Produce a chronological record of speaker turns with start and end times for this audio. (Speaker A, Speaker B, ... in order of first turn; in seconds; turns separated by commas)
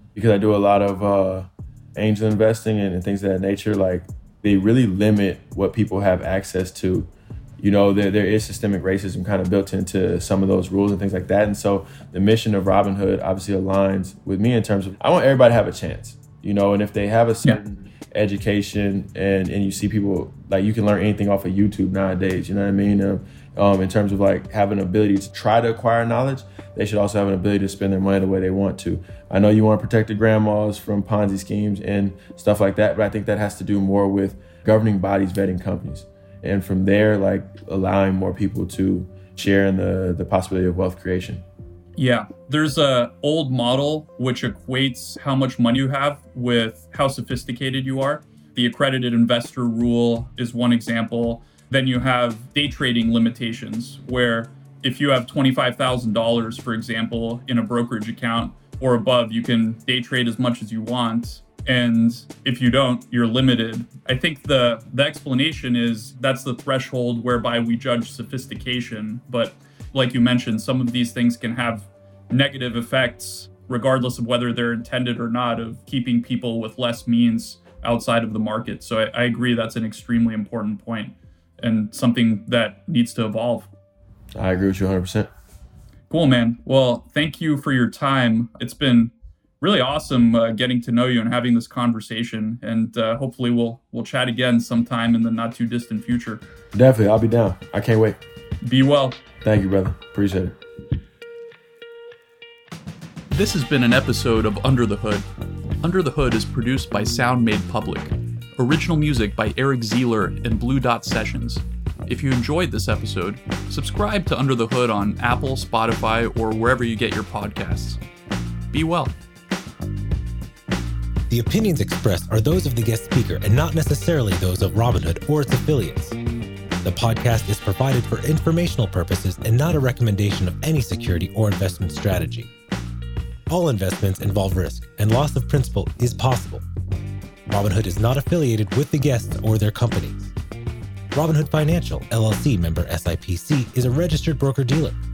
Speaker A: 0.1-41.4, Speaker B: 42.0-83.7, Speaker A: 84.3-85.3, Speaker B: 86.1-96.4, Speaker A: 96.7-98.2, Speaker B: 98.6-99.2, Speaker A: 99.4-100.6, Speaker B: 103.3-105.2, Speaker B: 105.8-118.0, Speaker B: 118.7-119.2, Speaker C: 121.3-126.2, Speaker C: 126.8-132.5, Speaker C: 133.5-136.6, Speaker C: 137.5-140.3, Speaker C: 141.1-145.0